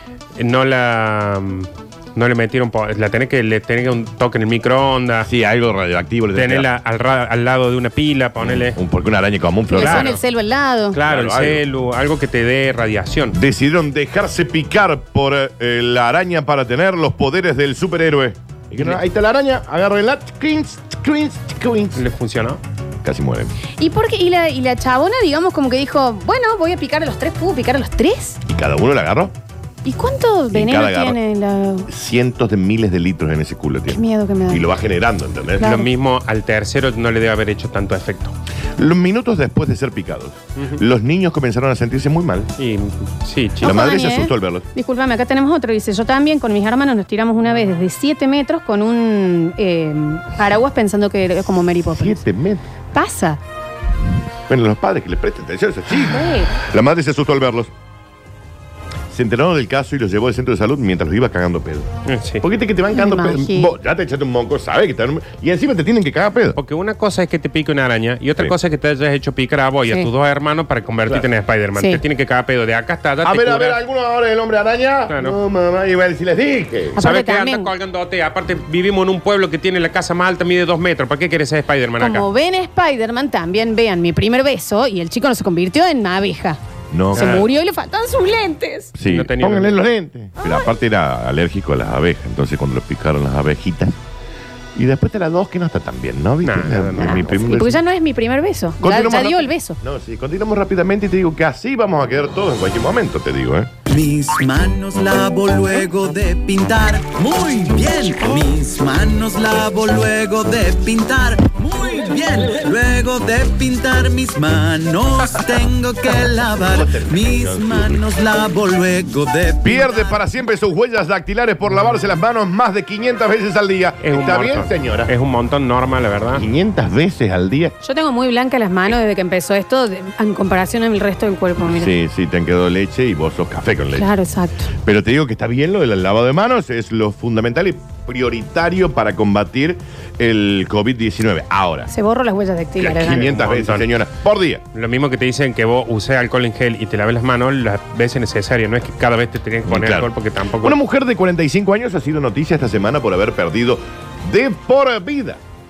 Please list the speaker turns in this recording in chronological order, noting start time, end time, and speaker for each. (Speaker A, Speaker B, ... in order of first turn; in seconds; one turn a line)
Speaker A: 0.3-5.3
Speaker B: 5.2-6.7
Speaker A: 6.3-8.8
Speaker B: 8.4-10.2
Speaker C: 9.7-11.0
Speaker A: 9.8-10.2
Speaker A: 10.9-13.4
Speaker B: 11.0-11.6
Speaker B: 13.3-22.0
Speaker A: 21.9-22.6
Speaker B: 23.0-23.5
Speaker C: 23.8-28.4
Speaker B: 28.4-29.3
Speaker C: 29.8-31.9
Speaker B: 30.5-31.2
Speaker B: 31.9-35.8
Speaker C: 33.9-34.7
Speaker C: 35.6-35.9
Speaker A: 35.6-38.3
Speaker B: 38.8-42.5
Speaker A: 42.6-43.8
Speaker B: 43.6-44.6
Speaker C: 43.6-52.2
Speaker B: 51.9-52.6
Speaker C: 52.9-53.4
Speaker B: 54.5-57.7
Speaker C: 56.0-56.6
Speaker B: 59.1-61.9
Speaker A: 62.0-62.4
Speaker B: 62.4-66.6
Speaker C: 62.9-63.7
Speaker A: 66.5-73.8
Speaker C: 71.8-72.0
Speaker B: 73.2-77.0
Speaker A: 75.1-75.4
Speaker C: 76.9-77.7
Speaker A: 77.0-82.3
Speaker C: 82.0-86.6
Speaker B: 86.9-87.5
Speaker C: 87.1-88.9
Speaker A: 87.2-87.5
Speaker B: 89.0-94.0
Speaker A: 89.0-89.8
Speaker C: 90.4-90.7
Speaker B: 94.7-97.8
Speaker A: 96.4-97.2
Speaker C: 97.0-99.8
Speaker B: 98.8-103.7
Speaker D: 103.9-119.9
Speaker B: 116.5-118.0
Speaker B: 119.6-125.1
Speaker C: 119.7-120.2
Speaker A: 124.0-126.4
Speaker B: 126.3-127.8
Speaker C: 127.8-131.9
Speaker B: 131.6-134.1
Speaker C: 133.9-134.7
Speaker B: 134.7-141.9
Speaker C: 141.9-143.3
Speaker B: 142.8-144.6
Speaker A: 143.0-143.9
Speaker A: 144.7-150.8
Speaker B: 149.7-155.4